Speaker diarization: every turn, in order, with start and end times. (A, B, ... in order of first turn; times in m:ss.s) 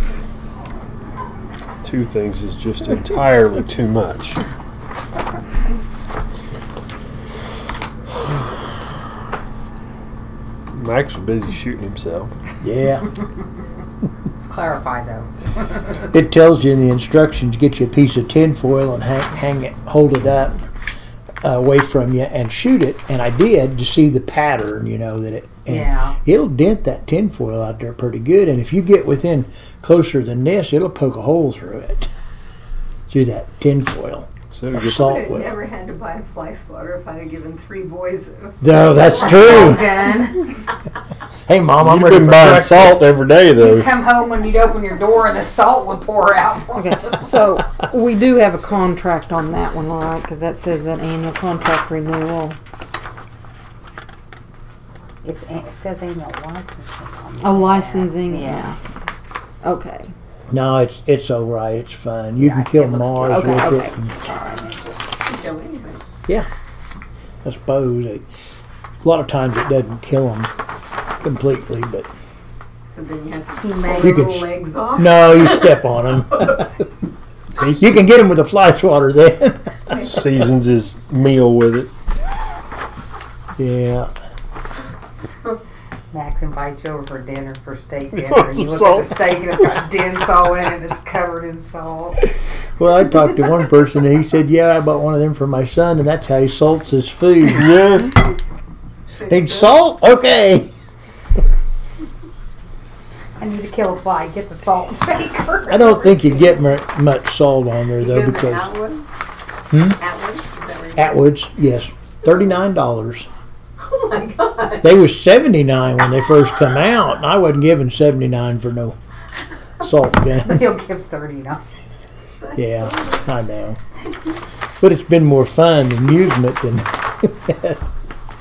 0:01.8-0:04.4 A
0:10.7-0:12.3 A
0:12.6-0:13.1 B
0:14.5-0:16.1 C
0:16.1-0:20.6 B
0:21.4-0:32.1 B
0:25.7-0:26.2 C
0:33.1-0:35.6 B
0:34.5-0:35.1 A
0:34.9-0:40.0 D
0:38.6-0:39.9 B
0:39.2-0:40.6 C
0:41.5-0:42.9 B
0:41.8-0:43.9 A
0:43.5-0:47.3 C
0:46.8-0:52.6 E
0:55.2-0:58.7 C
0:57.4-0:58.8 E
0:59.6-1:00.1 E
1:00.5-1:04.1 B
1:02.4-1:04.8 C
1:03.2-1:04.1 E
1:05.1-1:06.0 D
1:07.4-1:08.3 B
1:09.0-1:10.5 B
1:11.2-1:12.1 B
1:12.9-1:15.9 D
1:13.6-1:14.3 C
1:14.0-1:16.8 B
1:17.6-1:18.0 A
1:17.6-1:20.0 B
1:20.1-1:21.9 A
1:23.6-1:24.1 B
1:26.1-1:32.2 C
1:28.1-1:29.1 A
1:32.8-1:37.8 B
1:37.6-1:38.1 A
1:39.2-1:39.6 D
1:39.2-1:40.7 B
1:43.4-1:46.0 C
1:45.7-1:48.8 B
1:46.3-1:46.5 D
1:48.0-1:49.1 D
1:49.7-1:50.0 B
1:49.9-1:51.2 D
1:51.0-1:53.3 B
1:53.8-1:55.0 D
1:54.8-1:59.0 B
1:59.8-2:00.7 B
2:00.2-2:01.6 C
2:02.4-2:03.0 D
2:02.5-2:03.8 B
2:04.8-2:07.8 B